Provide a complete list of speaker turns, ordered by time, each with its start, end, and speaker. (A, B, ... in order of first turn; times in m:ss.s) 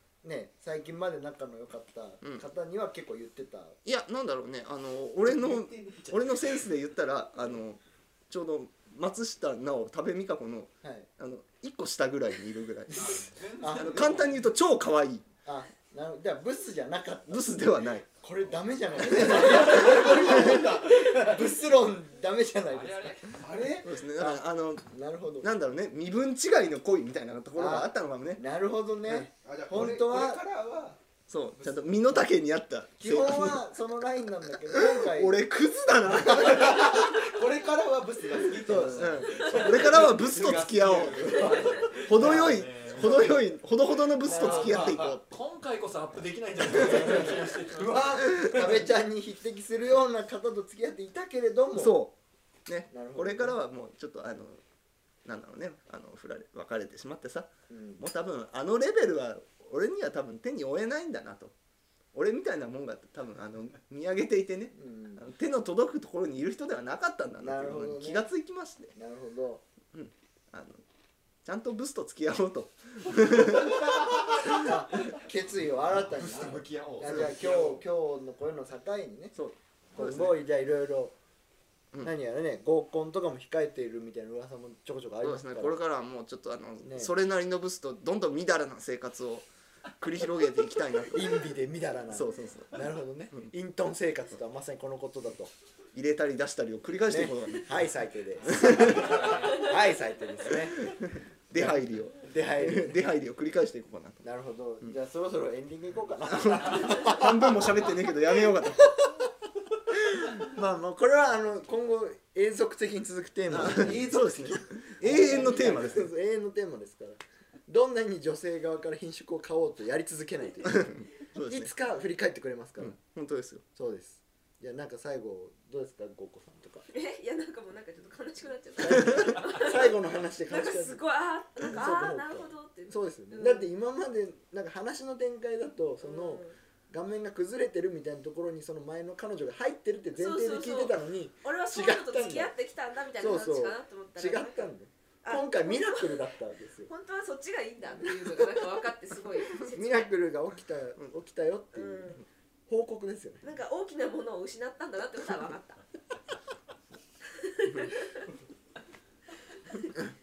0:00.2-0:03.8 A
0:03.8-0:15.2 B
0:05.3-0:06.6 C
0:10.8-0:11.1 A
0:12.9-0:14.5 C
0:13.6-0:14.2 A
0:15.4-0:17.6 A
0:17.3-0:18.1 B
0:18.2-0:23.3 A
0:19.1-0:19.6 B
0:19.2-0:21.2 D
0:22.6-0:23.8 C
0:23.4-0:23.8 D
0:23.8-0:24.9 B
0:24.2-0:25.5 A
0:25.4-0:28.4 B
0:27.6-0:30.4 A
0:29.0-0:30.0 B
0:29.3-0:31.0 D
0:31.3-0:33.7 B
0:33.0-0:35.4 A
0:34.5-0:37.0 B
0:36.2-0:36.6 A
0:36.5-0:39.5 D
0:38.4-0:43.5 C
0:38.6-0:40.0 A
0:38.9-0:45.4 B
0:42.1-0:42.7 A
0:44.2-0:48.8 C
0:44.2-0:45.0 A
0:47.7-0:52.0 A
0:47.8-0:48.3 D
0:48.4-0:48.7 B
0:51.7-0:52.1 B
0:52.7-0:54.6 B
0:52.9-0:53.6 A
0:55.2-1:01.5 B
0:57.7-0:58.0 A
1:02.1-1:08.9 B
1:04.7-1:05.2 A
1:07.4-1:08.3 A
1:08.9-1:09.6 A
1:09.9-1:10.8 B
1:11.4-1:14.6 B
1:14.6-1:19.4 A
1:15.8-1:17.8 C
1:19.3-1:20.4 B
1:19.9-1:21.1 A
1:22.0-1:25.8 A
1:25.2-1:29.5 B
1:26.8-1:27.1 A
1:30.0-1:31.4 B
1:31.1-1:35.5 A
1:32.1-1:33.5 B
1:35.9-1:37.8 B
1:37.1-1:40.9 A
1:38.4-1:39.2 B
1:39.1-1:39.4 C
1:40.8-1:44.2 B
1:41.6-1:43.0 A
1:44.2-1:47.8 A
1:46.3-1:48.9 B
1:48.8-1:49.1 A
1:49.9-2:03.0 A
1:53.5-1:56.1 B
2:00.6-2:01.7 B
2:02.8-2:03.6 B
2:03.8-2:06.8 A
2:06.9-2:10.0 E
2:08.8-2:11.0 A
2:10.5-2:13.7 E
2:11.7-2:22.5 A
2:16.0-2:16.5 E
2:20.1-2:24.7 E
2:23.2-2:26.9 A
2:25.2-2:26.2 E
2:26.9-2:30.1 E
2:29.6-2:32.2 A
2:31.7-2:32.2 E
2:32.7-2:33.4 A
2:33.4-2:35.8 E
2:37.4-2:38.3 E